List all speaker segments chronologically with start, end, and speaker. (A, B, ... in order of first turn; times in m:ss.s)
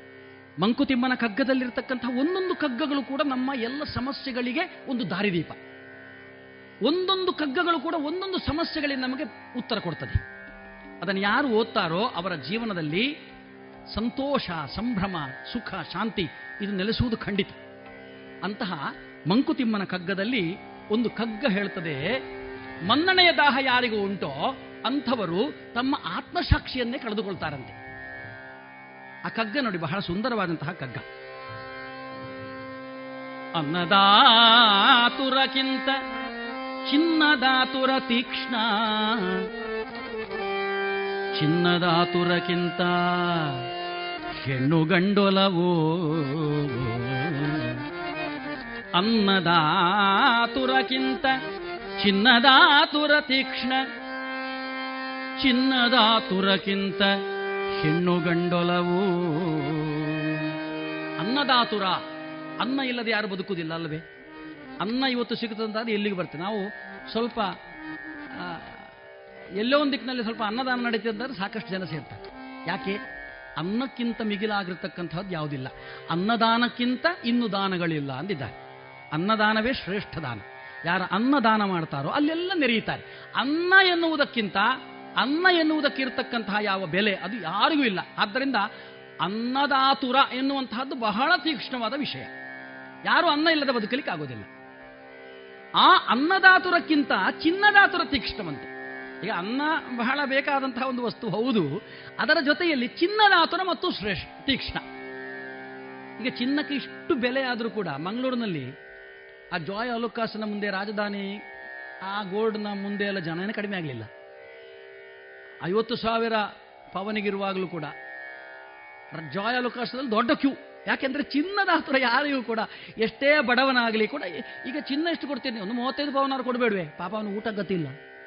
0:00.6-0:05.6 A
0:06.9-0:10.2 A
0:11.0-0:13.1 A
0:13.9-0:17.6 A
0:18.4-0:22.0 A
0:22.9-0:24.3 A
0:24.9-0:27.8 A
0:29.3-0:31.0 A
0:33.6-0:35.9 A
0:36.9-0:39.4 A
0:41.4-0:43.5 A
0:44.4-0:47.7 A
0:49.0-0:51.3 A
0:52.0-0:53.8 A
0:55.4-0:57.1 A
0:57.8-1:00.2 A
1:01.2-1:02.0 A
1:02.6-1:04.0 A
1:04.8-1:07.5 A
1:08.4-1:08.8 A
1:09.6-1:13.0 A
1:13.6-1:18.6 A
1:19.2-1:24.6 A
1:25.2-1:28.6 A
1:29.2-1:32.3 A
1:33.1-1:34.5 A
1:35.8-1:38.7 A
1:39.2-1:41.7 A
1:42.2-1:44.8 A
1:46.2-1:48.7 A
1:49.6-1:51.3 A
1:52.1-1:54.1 A
1:55.7-1:57.9 A
1:59.1-2:08.0 A